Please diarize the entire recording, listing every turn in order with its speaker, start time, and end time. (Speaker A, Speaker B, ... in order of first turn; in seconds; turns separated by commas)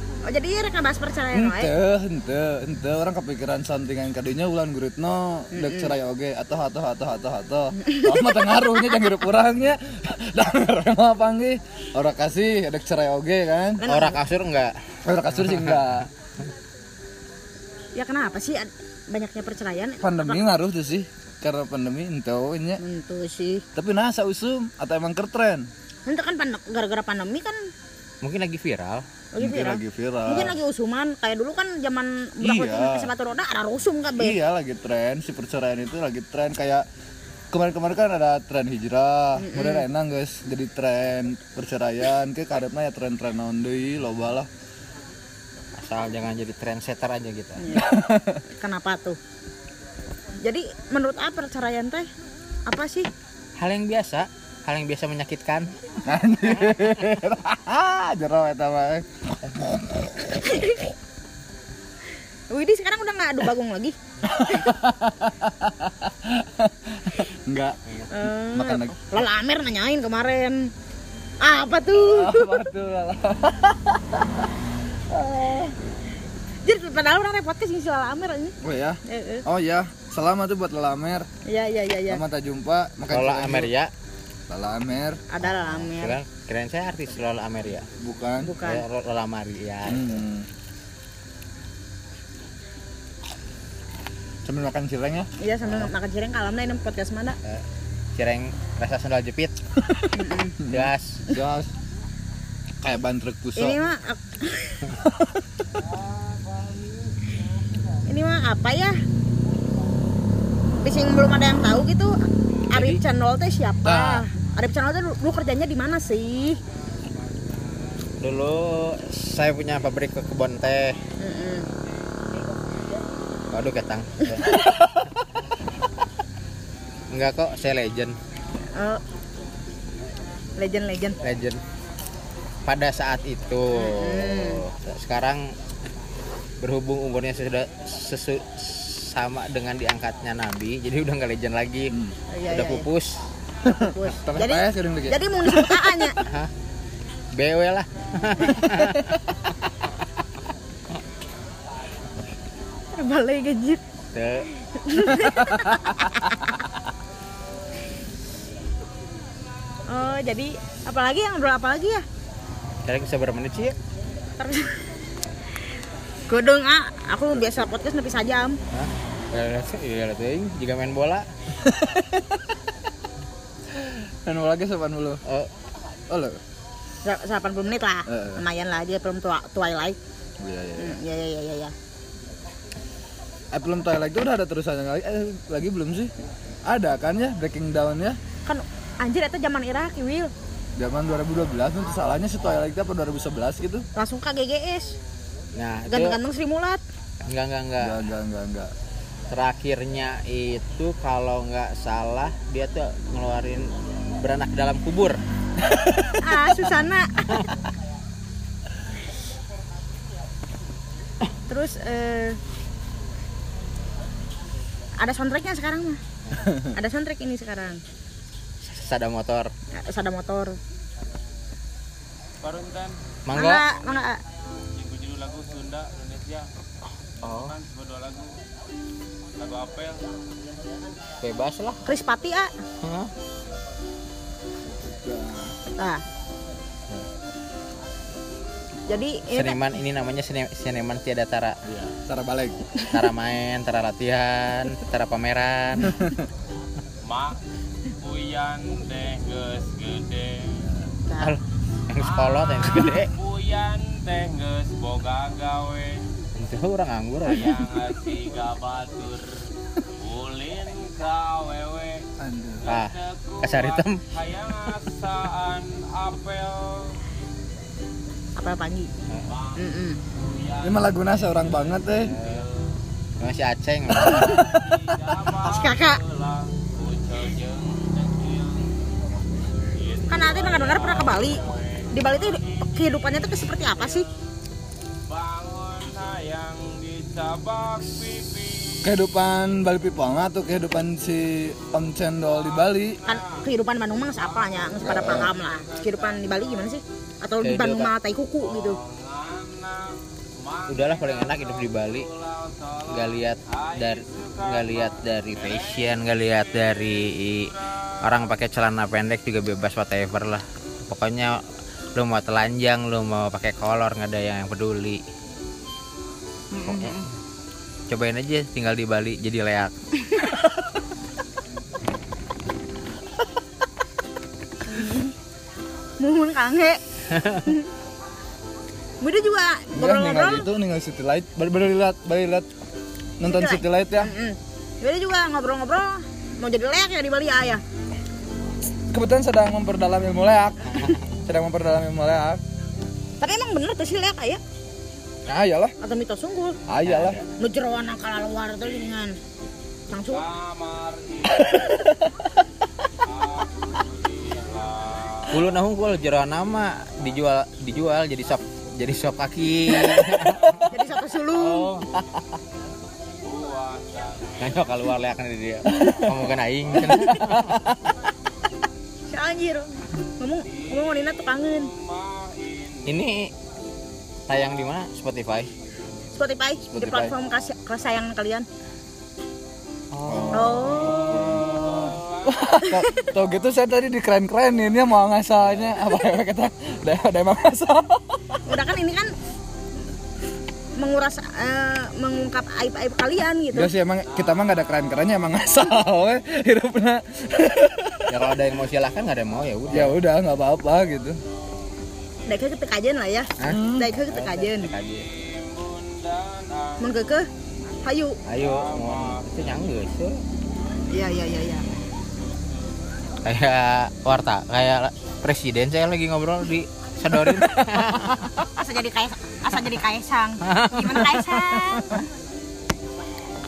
Speaker A: 0.2-1.7, Speaker B: 1.3-13.8, Speaker A: 5.5-5.9, Speaker A: 7.8-8.9, Speaker A: 13.8-14.2, Speaker C: 13.8-14.8, Speaker B: 15.0-16.1, Speaker A: 17.9-20.4, Speaker B: 20.0-22.8, Speaker A: 22.8-23.6, Speaker B: 23.7-25.7, Speaker A: 26.1-27.6, Speaker C: 28.2-29.0, Speaker A: 29.3-34.4, Speaker B: 29.4-30.6, Speaker B: 32.4-33.1, Speaker B: 34.2-36.9, Speaker B: 37.5-44.5, Speaker A: 39.4-39.8, Speaker C: 45.8-47.6, Speaker A: 47.6-48.0, Speaker B: 47.7-48.4, Speaker A: 48.6-49.2, Speaker A: 50.4-52.1, Speaker A: 52.7-53.1, Speaker C: 53.6-55.7, Speaker B: 56.0-60.4, Speaker A: 60.4-60.8, Speaker A: 62.5-64.0, Speaker B: 64.2-67.8, Speaker A: 68.1-70.7, Speaker B: 68.4-69.1, Speaker A: 71.4-72.6, Speaker B: 72.0-74.5, Speaker B: 75.1-75.7, Speaker A: 76.6-79.4, Speaker B: 78.6-81.3, Speaker A: 81.5-82.2, Speaker B: 82.1-83.7, Speaker C: 83.1-83.9, Speaker B: 84.5-85.2, Speaker A: 85.3-86.2, Speaker C: 85.5-87.9, Speaker B: 88.0-88.5, Speaker A: 88.4-88.8, Speaker C: 88.6-90.2, Speaker B: 89.9-90.5, Speaker B: 94.5-95.3, Speaker A: 95.4-97.4, Speaker C: 98.2-99.5, Speaker A: 100.1-100.6, Speaker B: 100.6-101.7, Speaker C: 100.7-101.2, Speaker B: 102.8-103.8, Speaker A: 103.5-104.9, Speaker B: 105.0-105.4, Speaker A: 108.1-109.0, Speaker A: 110.8-116.6, Speaker C: 112.7-113.0, Speaker B: 113.8-114.2, Speaker C: 118.2-121.0, Speaker A: 121.2-121.7, Speaker C: 123.5-124.7, Speaker C: 127.1-128.2, Speaker A: 128.7-129.0, Speaker A: 130.6-131.2, Speaker C: 131.2-131.6, Speaker C: 132.7-135.5, Speaker A: 133.7-134.6, Speaker C: 136.6-141.9, Speaker A: 142.3-142.9, Speaker C: 142.5-143.2, Speaker A: 143.6-146.2, Speaker B: 143.7-145.9, Speaker C: 146.2-146.5, Speaker C: 147.3-149.2, Speaker A: 152.9-153.8, Speaker C: 154.1-154.5, Speaker A: 154.8-156.3, Speaker A: 159.9-162.0, Speaker C: 162.8-163.8, Speaker A: 164.4-164.7, Speaker A: 166.3-168.6, Speaker C: 168.7-171.2, Speaker B: 171.7-172.2, Speaker B: 173.7-175.2, Speaker B: 176.1-176.4, Speaker A: 177.0-180.0, Speaker B: 178.1-178.4, Speaker B: 180.4-181.0, Speaker A: 180.8-181.7, Speaker B: 183.5-186.1, Speaker B: 186.7-188.2, Speaker A: 188.4-190.3, Speaker B: 190.8-193.8, Speaker A: 193.9-195.0, Speaker C: 195.6-196.2, Speaker A: 195.9-196.8, Speaker C: 197.3-198.0, Speaker B: 197.8-198.7, Speaker C: 199.3-205.2, Speaker A: 206.2-207.2, Speaker A: 211.5-212.4, Speaker A: 215.0-216.0, Speaker A: 216.7-217.8, Speaker C: 218.6-219.5, Speaker A: 219.8-220.6, Speaker D: 222.4-223.0, Speaker C: 223.3-223.6, Speaker A: 223.3-224.2, Speaker D: 223.7-224.1, Speaker D: 224.7-226.5, Speaker C: 227.2-227.5, Speaker D: 227.2-228.4, Speaker D: 229.4-230.1, Speaker C: 231.2-231.8, Speaker A: 231.8-232.5, Speaker C: 232.8-233.1, Speaker B: 234.8-235.5, Speaker A: 238.9-239.6, Speaker C: 239.3-241.6, Speaker B: 241.7-242.7, Speaker C: 242.9-246.0, Speaker D: 247.0-247.4, Speaker D: 248.0-250.7, Speaker A: 251.1-251.3, Speaker C: 251.2-253.1, Speaker D: 252.0-256.0, Speaker C: 256.4-257.7, Speaker D: 257.3-259.4, Speaker D: 260.0-262.1, Speaker B: 262.2-262.6, Speaker D: 262.6-267.0, Speaker C: 262.7-264.0, Speaker A: 268.4-268.9, Speaker D: 269.3-272.7, Speaker A: 269.6-270.0, Speaker B: 270.6-272.1, Speaker C: 272.1-272.4, Speaker C: 273.2-274.4, Speaker A: 274.0-274.4, Speaker D: 274.2-278.8, Speaker A: 275.4-276.0, Speaker D: 279.7-284.0, Speaker A: 280.1-284.1, Speaker D: 285.1-288.9, Speaker B: 288.8-293.0, Speaker D: 292.2-293.5, Speaker A: 293.0-298.8, Speaker D: 294.1-296.7, Speaker B: 294.8-295.3, Speaker C: 297.4-297.9, Speaker D: 298.4-308.1, Speaker C: 300.7-302.1, Speaker C: 302.9-311.4, Speaker C: 311.9-315.0, Speaker A: 316.5-317.0, Speaker C: 316.6-317.0, Speaker C: 317.9-319.7, Speaker A: 324.7-325.1, Speaker A: 326.0-326.8, Speaker A: 329.0-330.5, Speaker B: 329.7-332.5, Speaker B: 333.2-334.1, Speaker A: 333.2-337.6, Speaker B: 338.9-342.4, Speaker A: 343.2-344.4, Speaker B: 345.2-345.7, Speaker A: 345.8-346.6, Speaker B: 346.7-347.2, Speaker C: 346.8-347.2, Speaker A: 347.4-349.1, Speaker A: 349.9-350.2, Speaker D: 350.1-351.7, Speaker D: 353.0-355.5, Speaker C: 355.3-360.6, Speaker A: 360.7-361.7, Speaker D: 361.5-362.0, Speaker D: 363.2-364.6, Speaker C: 364.4-367.7, Speaker B: 366.9-367.7, Speaker A: 369.1-371.7, Speaker D: 370.5-373.0, Speaker C: 372.9-373.3, Speaker C: 374.3-375.5, Speaker A: 376.1-378.5, Speaker B: 376.7-377.1, Speaker C: 379.9-381.4, Speaker B: 380.0-388.4, Speaker A: 380.3-381.2, Speaker D: 380.8-382.6, Speaker A: 382.6-383.1, Speaker A: 388.4-389.1, Speaker A: 390.8-393.7, Speaker B: 393.5-398.2, Speaker C: 398.1-400.0, Speaker B: 399.7-401.2, Speaker A: 402.3-404.7, Speaker C: 403.4-405.1, Speaker B: 403.4-403.9, Speaker D: 404.8-406.9, Speaker A: 406.8-407.3, Speaker A: 407.8-408.2, Speaker C: 408.3-410.2, Speaker D: 408.4-409.6, Speaker A: 410.9-411.6, Speaker D: 412.0-412.7, Speaker C: 413.2-418.3, Speaker A: 418.5-422.0, Speaker C: 420.4-421.4